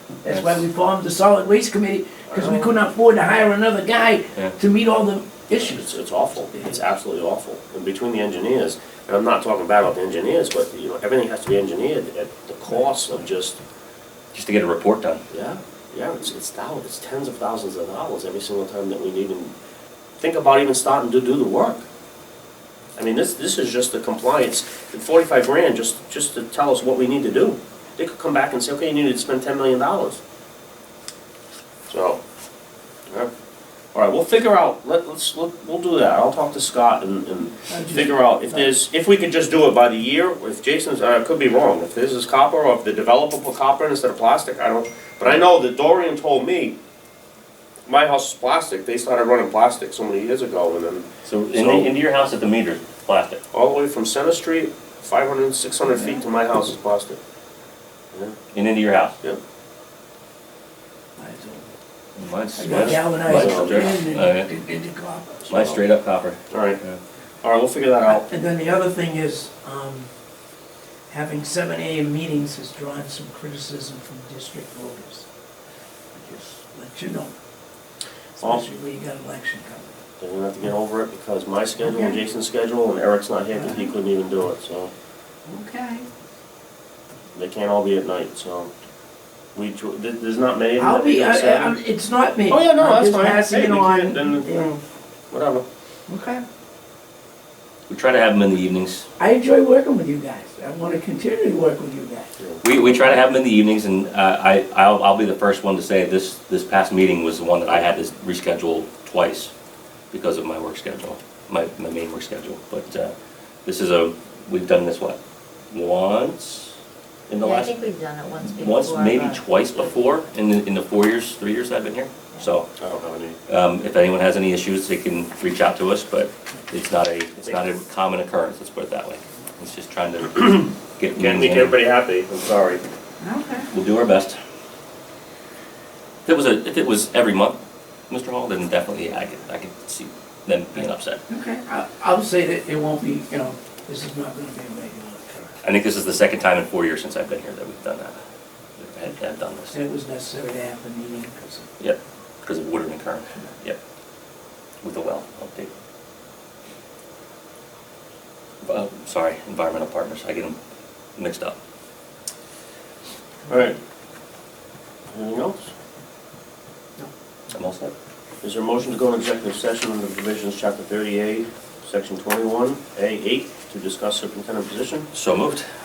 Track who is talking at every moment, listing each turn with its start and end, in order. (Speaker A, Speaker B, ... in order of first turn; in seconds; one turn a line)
Speaker A: 0.2-5.9
Speaker B: 0.3-0.6
Speaker C: 2.3-2.7
Speaker C: 5.5-13.6
Speaker B: 14.3-15.2
Speaker C: 15.3-19.5
Speaker C: 20.2-21.8
Speaker C: 22.9-30.2
Speaker C: 31.9-32.2
Speaker C: 33.9-46.8
Speaker A: 37.7-38.6
Speaker C: 47.9-51.9
Speaker B: 51.2-53.4
Speaker C: 53.5-57.2
Speaker B: 58.5-59.1
Speaker A: 61.2-61.7
Speaker B: 62.1-64.5
Speaker A: 62.5-65.5
Speaker C: 62.7-63.9
Speaker C: 65.5-65.8
Speaker B: 65.5-67.0
Speaker C: 66.5-66.8
Speaker C: 67.4-68.2
Speaker A: 68.1-70.1
Speaker A: 71.1-75.3
Speaker B: 76.2-76.5
Speaker A: 76.7-77.3
Speaker A: 78.4-80.0
Speaker C: 80.2-84.9
Speaker A: 81.8-82.2
Speaker A: 83.5-83.9
Speaker A: 85.5-86.1
Speaker C: 87.3-88.7
Speaker C: 89.5-91.8
Speaker A: 90.8-94.8
Speaker C: 92.5-94.8
Speaker C: 95.3-95.6
Speaker A: 96.1-96.4
Speaker B: 97.9-99.0
Speaker A: 99.2-102.3
Speaker C: 102.4-103.1
Speaker B: 102.6-109.5
Speaker B: 110.1-113.1
Speaker B: 113.6-115.2
Speaker B: 115.7-116.7
Speaker B: 117.3-117.7
Speaker D: 117.4-119.9
Speaker B: 118.5-122.7
Speaker C: 122.8-123.4
Speaker B: 123.5-131.8
Speaker C: 131.2-132.8
Speaker A: 133.2-133.7
Speaker B: 133.7-134.3
Speaker B: 136.2-137.6
Speaker B: 138.1-141.2
Speaker A: 141.3-145.5
Speaker B: 145.6-148.2
Speaker B: 148.8-149.8
Speaker A: 149.7-151.7
Speaker B: 151.8-153.8
Speaker B: 154.8-155.7
Speaker B: 158.6-160.6
Speaker B: 161.2-161.6
Speaker C: 163.5-163.8
Speaker C: 165.1-165.7
Speaker B: 167.5-167.9
Speaker C: 168.4-175.1
Speaker B: 175.1-175.6